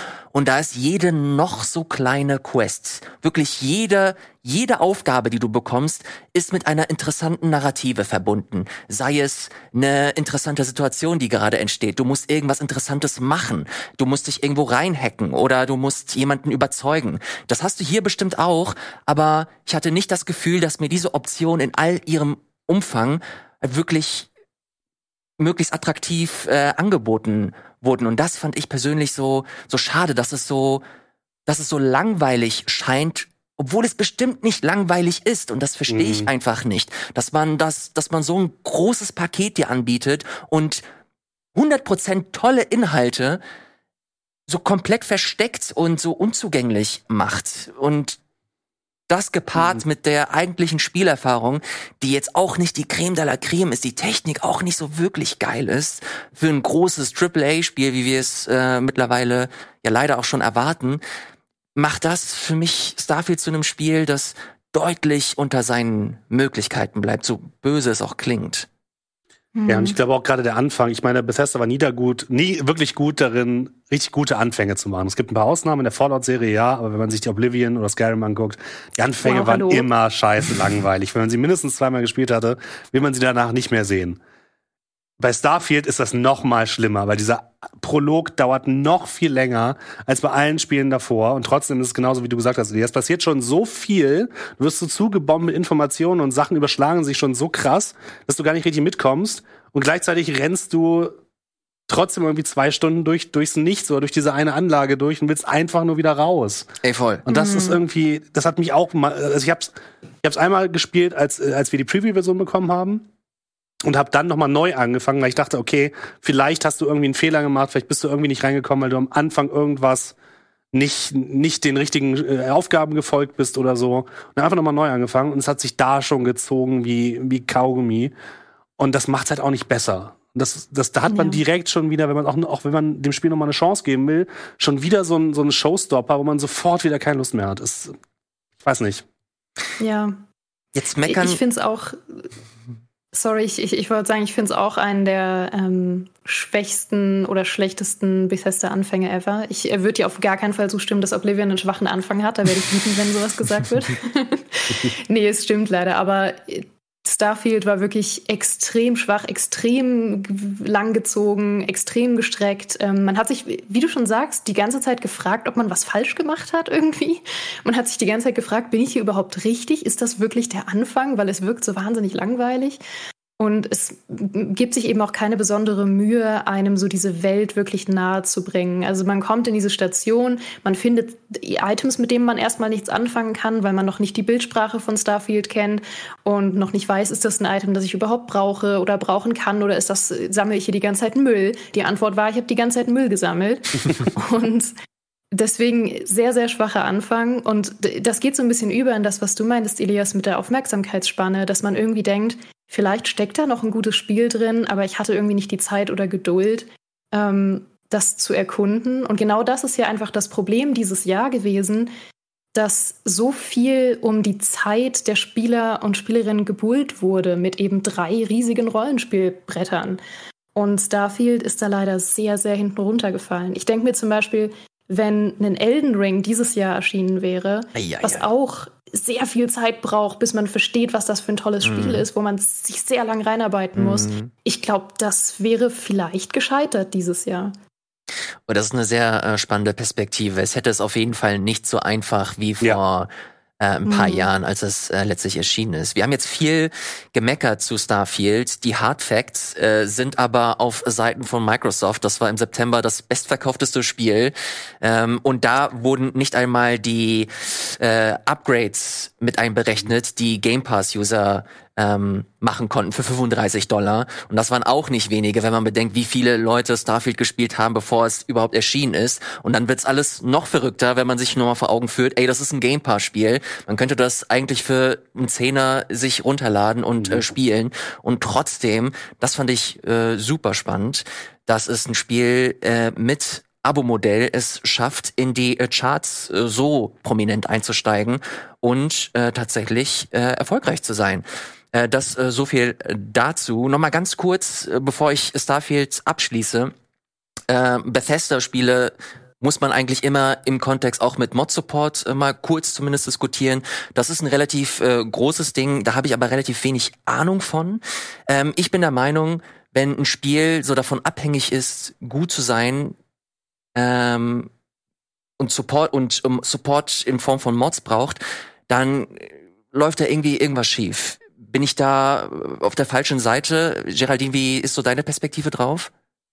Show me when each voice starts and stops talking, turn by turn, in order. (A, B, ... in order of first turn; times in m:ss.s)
0:00.3-0:24.3 A
0:25.4-0:30.8 A
0:31.5-0:40.8 A
0:35.9-0:36.3 B
0:41.6-0:43.4 A
0:44.5-0:48.2 A
0:49.1-1:01.0 A
1:01.8-1:08.7 A
1:09.6-1:10.0 C
1:09.7-1:24.2 B
1:19.2-1:19.9 C
1:25.2-1:41.2 B
1:41.9-1:46.7 B
1:46.8-1:47.3 A
1:47.3-1:53.1 B
1:47.3-1:47.8 C
1:53.8-2:00.2 B
2:00.7-2:08.1 B
2:08.8-2:17.9 B
2:11.1-2:11.4 C
2:18.6-2:19.0 B
2:19.8-2:20.2 C
2:20.8-2:21.4 A
2:21.1-2:22.3 C
2:23.1-2:52.8 C
2:53.4-3:14.7 C
3:15.3-3:31.9 C
3:32.5-3:40.0 C
3:40.6-3:57.5 C
3:47.8-3:48.2 A
3:51.6-3:52.1 A
3:53.8-3:54.3 A
3:58.5-4:56.7 A
4:03.9-4:04.3 C
4:37.0-4:37.3 B
4:57.5-5:13.0 A
5:13.8-5:14.5 A
5:15.4-5:25.9 A